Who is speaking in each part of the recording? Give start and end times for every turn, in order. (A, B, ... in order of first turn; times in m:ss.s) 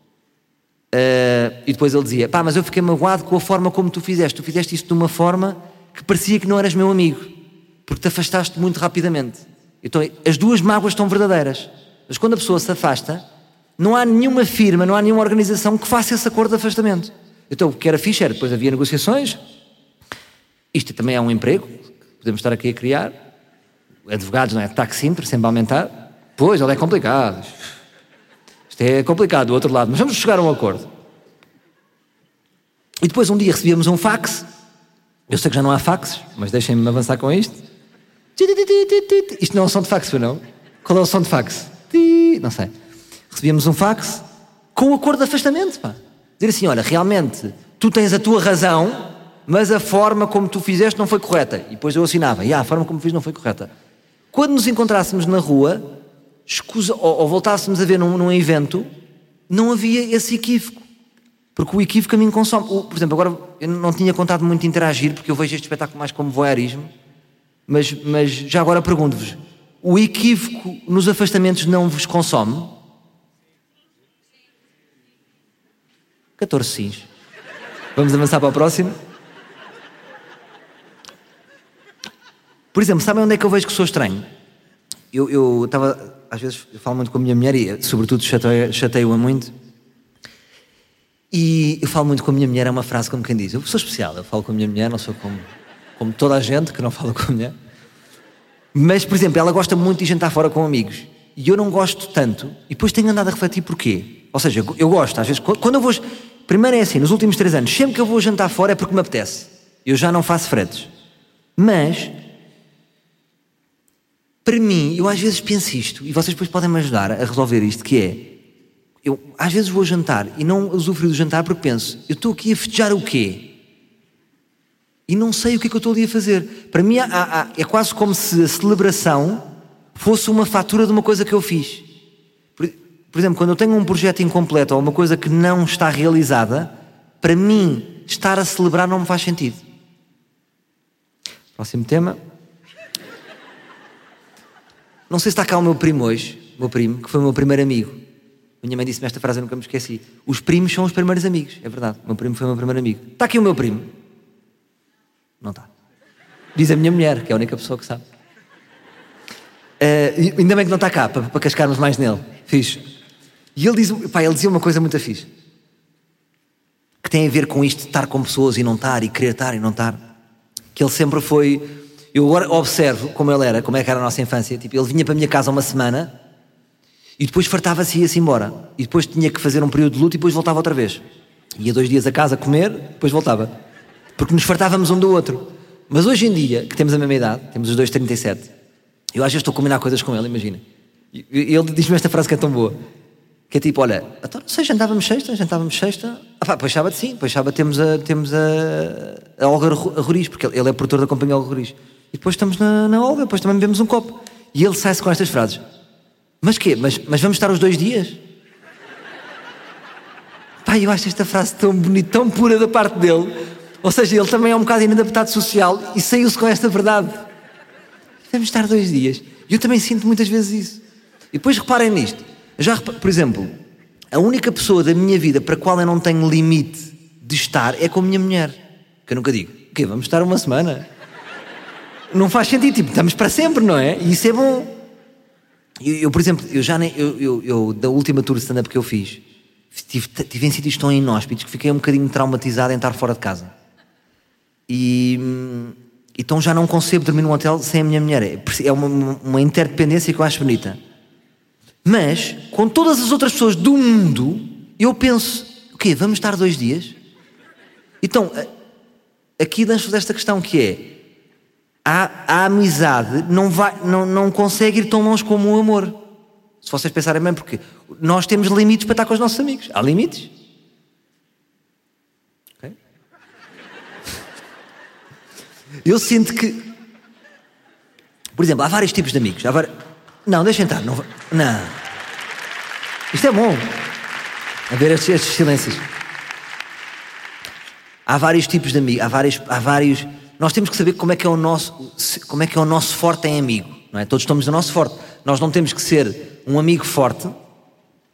0:00.9-0:13.2 A
0:13.8-0:19.4 A
0:20.7-0:23.1 A
0:24.1-0:27.6 A
0:28.7-0:30.9 A
0:33.0-0:34.5 A
0:35.3-0:37.6 A
0:38.4-0:42.7 A
0:43.3-0:53.7 A
0:54.3-0:56.0 A
0:56.5-0:58.9 A
0:59.5-1:00.8 A
1:01.6-1:06.9 A
1:07.7-1:12.8 A
1:16.4-1:17.1 A
1:17.9-1:19.0 A
1:22.7-1:24.2 A
1:25.1-1:29.5 A
1:31.3-1:37.5 A
1:38.7-1:50.9 A
1:51.6-1:52.2 A
1:54.4-1:58.4 A
1:59.0-2:03.5 A
2:05.1-2:11.8 A
2:12.6-2:19.6 A
2:21.6-2:22.2 A
2:25.1-2:28.0 A
2:28.6-2:33.9 A
2:35.4-2:35.7 A
2:36.5-2:38.0 A
2:39.8-2:42.8 A
2:43.6-2:45.3 A
2:47.0-2:50.0 A
2:50.7-2:56.1 A
2:57.2-3:01.0 A
3:01.6-3:03.5 A
3:04.2-3:08.5 A
3:09.1-3:10.6 A
3:11.1-3:12.8 A
3:13.5-3:25.6 A
3:26.4-3:28.2 A
3:30.6-3:37.3 A
3:38.3-3:40.8 A
3:41.3-3:43.5 A
3:44.1-3:50.9 A
3:52.1-3:54.8 A
3:55.8-4:03.5 A
4:04.7-4:10.8 A
4:11.8-4:16.9 A
4:18.0-4:18.5 A
4:19.4-4:21.0 A
4:21.8-4:26.0 A
4:26.6-4:30.3 A
4:35.8-4:36.7 A
4:38.4-4:39.7 A
4:40.2-4:41.8 A
4:43.1-4:43.8 A
4:44.7-4:45.8 A
4:48.0-4:57.3 A